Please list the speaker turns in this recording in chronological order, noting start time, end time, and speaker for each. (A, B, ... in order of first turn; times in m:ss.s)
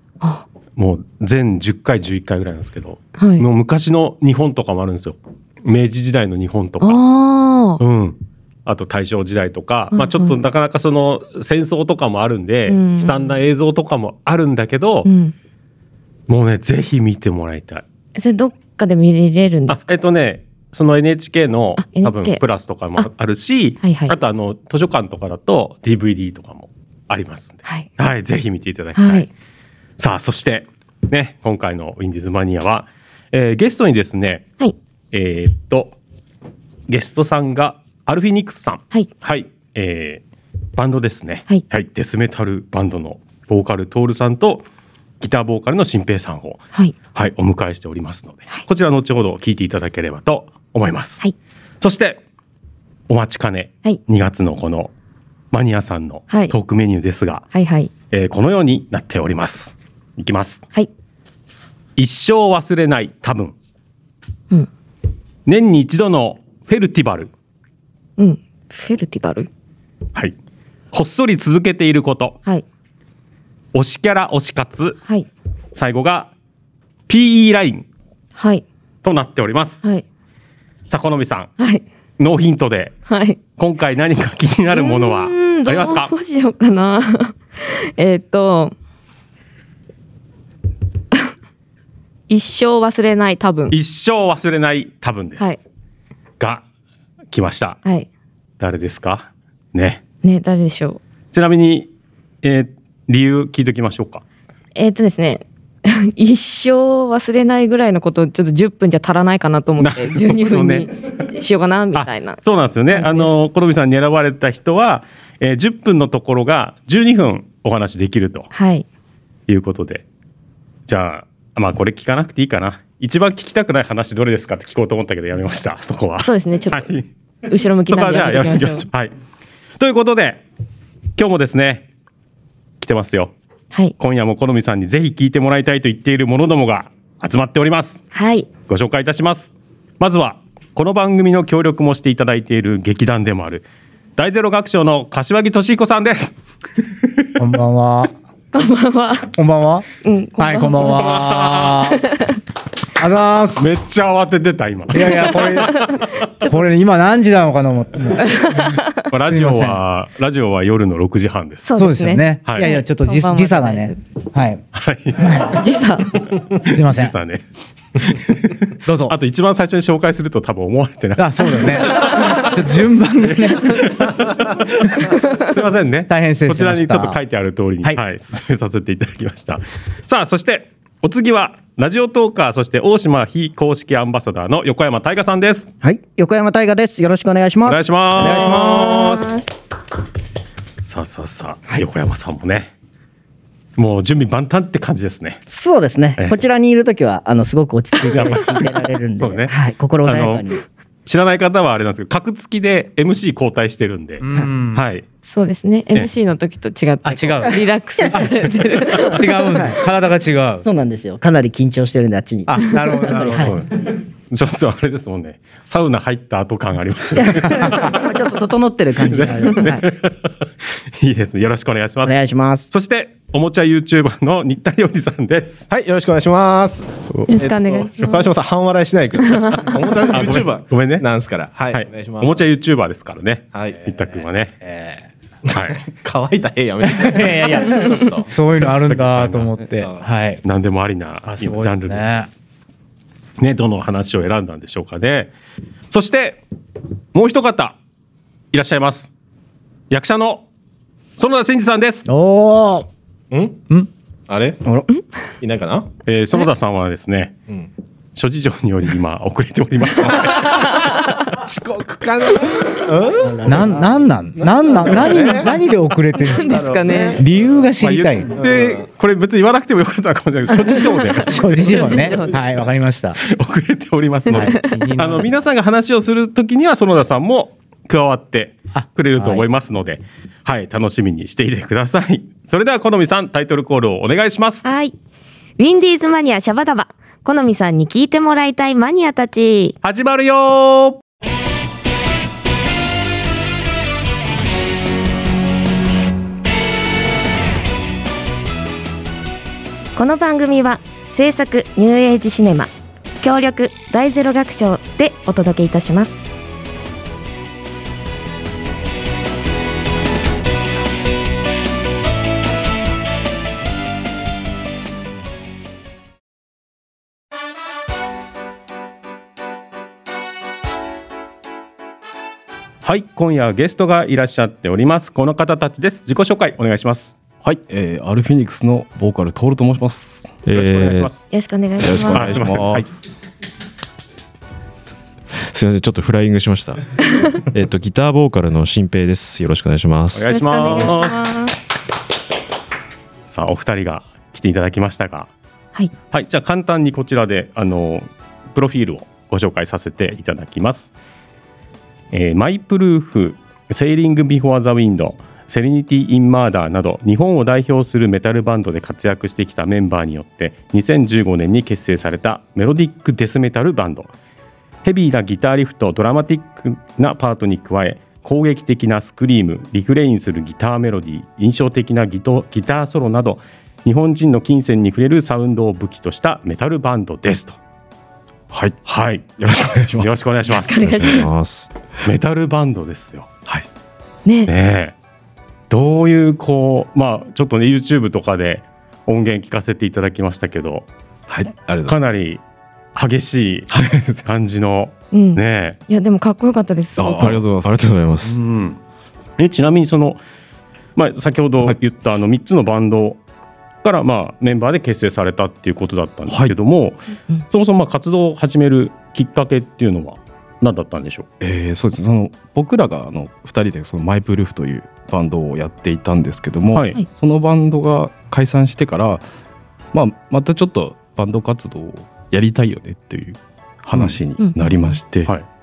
0:00.8-0:07.0 A
0:03.2-0:03.5 B
0:06.8-0:07.8 B
0:07.8-0:15.1 A
0:09.9-0:10.4 B
0:12.7-0:13.4 B
0:15.0-0:15.3 B
0:16.3-0:17.8 A
0:18.2-0:19.9 B
0:19.7-0:29.3 A
0:21.8-0:22.4 B
0:23.8-0:24.2 B
0:29.0-0:29.3 B
0:30.0-0:34.4 A
0:35.1-0:36.0 A
0:36.9-0:40.2 A
0:40.8-0:44.6 A
0:45.2-0:46.6 A
0:47.1-0:51.2 A
0:51.8-0:52.2 A
0:53.1-0:54.9 A
0:55.5-0:57.4 A
0:56.3-0:56.6 B
0:57.5-0:57.9 B
0:58.1-1:00.6 A
1:02.0-1:03.5 A
1:05.5-1:07.3 A
1:08.2-1:09.5 B
1:10.9-1:12.4 A
1:13.7-1:15.0 A
1:15.8-1:16.3 A
1:17.1-1:17.8 A
1:18.4-1:18.6 B
1:19.0-1:19.8 A
1:20.9-1:21.5 A
1:21.6-1:21.8 B
1:22.2-1:23.0 A
1:23.1-1:23.4 B
1:23.6-1:26.1 A
1:24.7-1:28.7 B
1:32.3-1:33.8 B
1:33.7-1:35.6 A
1:37.3-1:37.8 A
1:38.6-1:40.0 A
1:40.2-1:41.0 B
1:41.3-1:41.9 A
1:42.4-1:44.2 A
1:44.8-1:52.4 B
1:49.8-1:50.9 A
1:52.0-1:58.5 A
1:52.9-1:53.3 B
1:58.5-1:58.8 B
1:59.5-2:00.0 A
2:00.9-2:07.1 A
2:06.2-2:06.9 B
2:07.5-2:08.9 B
2:07.9-2:09.1 A
2:09.8-2:10.4 A
2:11.2-2:11.9 A
2:12.8-2:13.3 A
2:14.0-2:18.0 A
2:18.1-2:18.5 B
2:18.7-2:23.6 A
2:24.2-2:26.3 A
2:27.4-2:28.1 C
2:28.5-2:29.3 B
2:29.4-2:29.9 C
2:30.0-2:31.1 B
2:30.4-2:32.2 C
2:30.8-2:31.9 A
2:32.1-2:32.4 B
2:33.0-2:33.7 C
2:33.6-2:36.0 A
2:34.9-2:39.8 C
2:38.2-2:39.1 B
2:39.1-2:41.7 A
2:41.7-2:44.0 B
2:41.8-2:44.6 C
2:42.4-2:42.7 A
2:44.7-2:45.5 A
2:45.2-2:45.6 C
2:45.5-2:46.2 B
2:46.3-2:47.4 A
2:46.6-2:47.2 C
2:48.0-3:05.7 A
2:48.8-2:49.2 C
2:51.2-2:55.2 C
2:53.6-2:53.9 B
2:55.0-2:55.5 B
2:56.1-2:57.2 C
3:05.8-3:09.3 D
3:07.7-3:09.5 A
3:08.6-3:09.5 B
3:10.8-3:12.7 A
3:13.8-3:15.4 A
3:15.5-3:20.6 D
3:18.1-3:25.0 A
3:24.2-3:24.8 C
3:25.2-3:29.5 B
3:27.0-3:27.6 C
3:28.0-3:28.3 D
3:28.9-3:30.6 C
3:29.5-3:29.8 D
3:30.6-3:33.5 D
3:32.5-3:33.6 C
3:33.4-3:38.3 A
3:37.1-3:39.8 D
3:39.0-3:40.3 A
3:41.0-3:42.2 A
3:42.0-3:42.7 D
3:42.7-3:45.7 A
3:45.7-3:52.4 E
3:47.3-3:48.3 B
3:49.3-3:49.8 B
3:50.1-3:51.0 A
3:51.7-3:54.6 A
3:53.5-3:54.0 E
3:54.6-3:58.3 E
3:55.5-3:55.8 A
3:56.9-4:00.4 C
3:58.6-3:59.5 A
3:59.8-4:00.1 E
4:00.4-4:02.1 A
4:01.3-4:02.3 C
4:03.4-4:05.3 A
4:05.9-4:06.4 A
4:07.1-4:07.8 A
4:08.5-4:09.1 A
4:09.9-4:10.4 A
4:11.2-4:12.1 A
4:12.1-4:12.8 C
4:13.3-4:14.6 E
4:15.4-4:15.9 E
4:16.1-4:17.3 A
4:18.2-4:20.6 A
4:20.2-4:25.6 E
4:23.5-4:26.6 C
4:26.2-4:27.2 B
4:26.3-4:27.3 E
4:27.2-4:28.4 C
4:27.8-4:32.1 A
4:28.4-4:28.9 E
4:30.7-4:32.4 B
4:31.3-4:33.2 C
4:33.3-4:44.6 A
4:34.3-4:34.8 B
4:34.3-4:35.3 C
4:44.6-4:44.9 B
4:45.6-4:49.8 B
4:49.8-4:51.0 A
5:00.0-5:06.2 B
5:22.8-5:27.2 A
5:27.4-5:30.3 F
5:30.4-5:31.1 G
5:30.5-5:31.2 A
5:31.3-5:32.4 B
5:31.8-5:32.9 F
5:32.1-5:33.0 A
5:35.5-5:40.4 G
5:40.1-5:41.2 A
5:40.3-5:41.5 B
5:43.3-5:45.3 A
5:46.1-5:50.9 A
5:52.1-6:04.1 A
6:04.8-6:17.6 A
6:18.5-6:18.8 F
6:18.9-6:21.1 A
6:19.4-6:20.3 F
6:20.6-6:21.3 B
6:21.0-6:21.7 G
6:22.0-6:23.3 A
6:24.3-6:24.5 B
6:24.5-6:24.9 A
6:25.7-6:30.9 A
6:31.3-6:32.0 F
6:31.9-6:32.4 A
6:33.0-6:33.7 A
6:33.7-6:34.2 F
6:34.2-6:35.8 A
6:35.1-6:37.3 B
6:37.0-6:38.0 F
6:37.2-6:38.4 G
6:38.3-6:38.8 A
6:39.4-6:40.2 A
6:41.0-6:43.2 A
6:43.8-6:51.3 A
6:46.3-6:46.6 F
6:51.4-6:59.2 F
6:56.7-6:57.0 A
6:59.9-7:05.3 F
7:03.9-7:04.2 A
7:04.4-7:05.0 B